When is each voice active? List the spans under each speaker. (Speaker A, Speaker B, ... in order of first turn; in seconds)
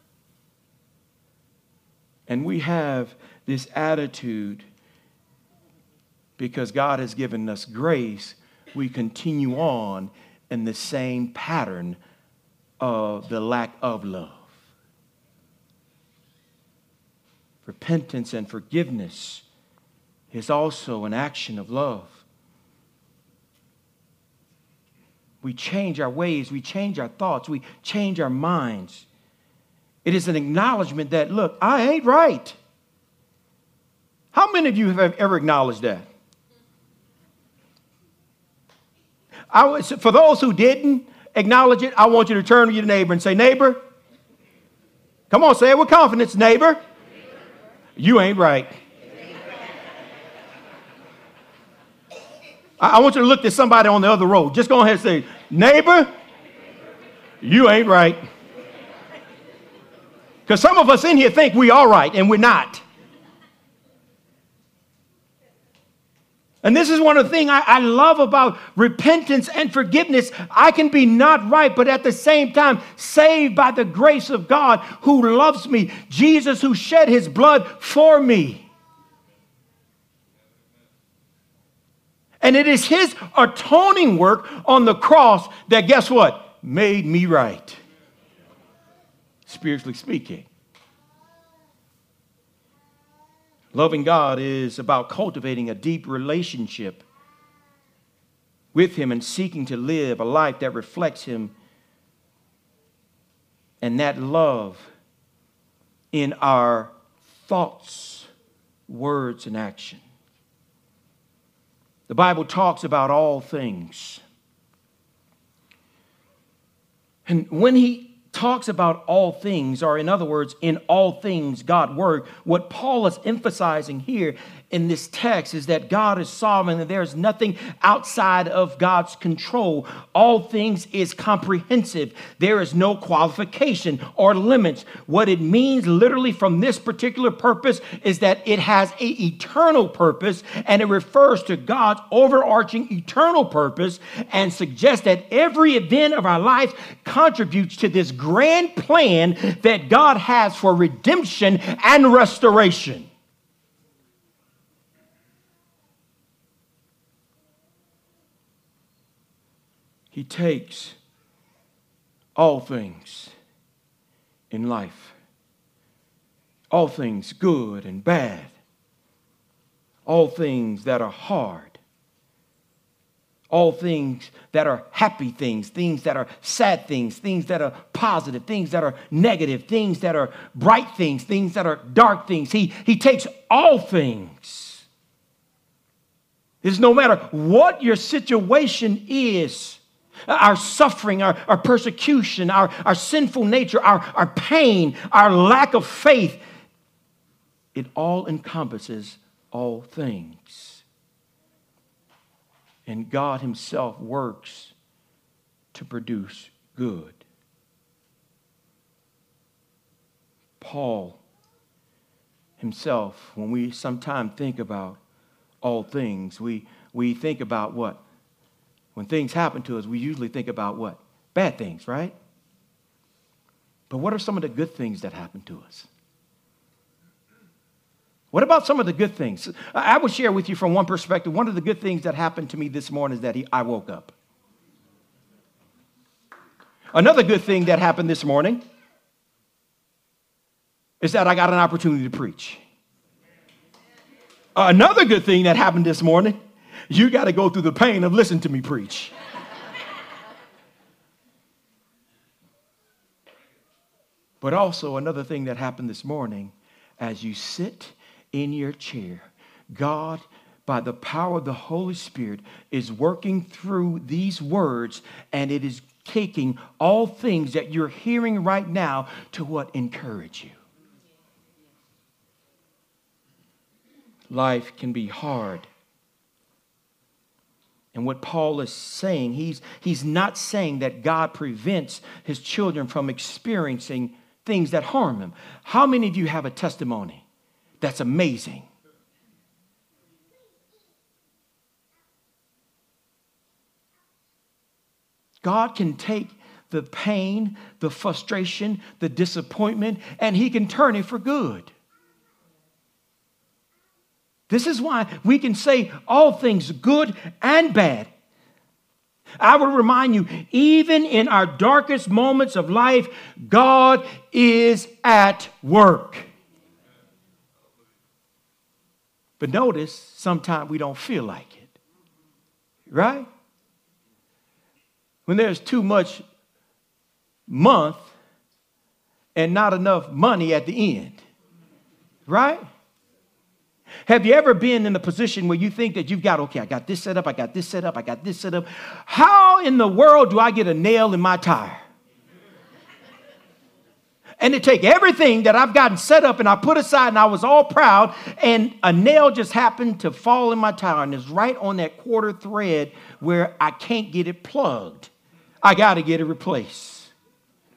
Speaker A: 2.3-4.6, 6.4-12.0, 12.8-14.5, 17.6-19.4, 20.3-22.2, 25.4-29.1, 30.0-32.6, 34.3-36.1, 39.5-43.8, 45.3-46.8, 48.0-48.7, 52.8-56.1, 57.4-58.2, 60.5-62.8, 66.6-78.7, 82.4-87.8, 89.5-90.5, 93.7-97.0, 98.7-101.5, 103.8-104.9, 106.1-106.9, 107.4-108.3, 108.9-110.0, 112.1-114.2, 117.2-153.1, 160.1-161.0, 162.3-163.3, 164.5-165.2, 166.7-168.5, 170.1-171.8, 173.5-184.8, 186.6-196.4, 197.7-200.8, 202.8-204.7, 205.7-207.2, 210.6-211.2, 212.6-215.0, 215.6-218.0, 218.9-222.1, 223.9-225.9, 228.3-234.1, 236.9-238.6, 241.0-242.6, 244.5-246.4, 246.9-249.1, 254.4-270.6, 274.3-275.7, 277.9-287.2, 287.8-288.7, 295.4-301.7, 304.5-308.1, 309.4-316.3, 319.4-321.7, 322.9-323.2, 325.3-326.2, 327.5-328.1, 329.3-331.2, 332.3-332.6, 334.0-341.8, 344.4-355.1, 355.6-357.1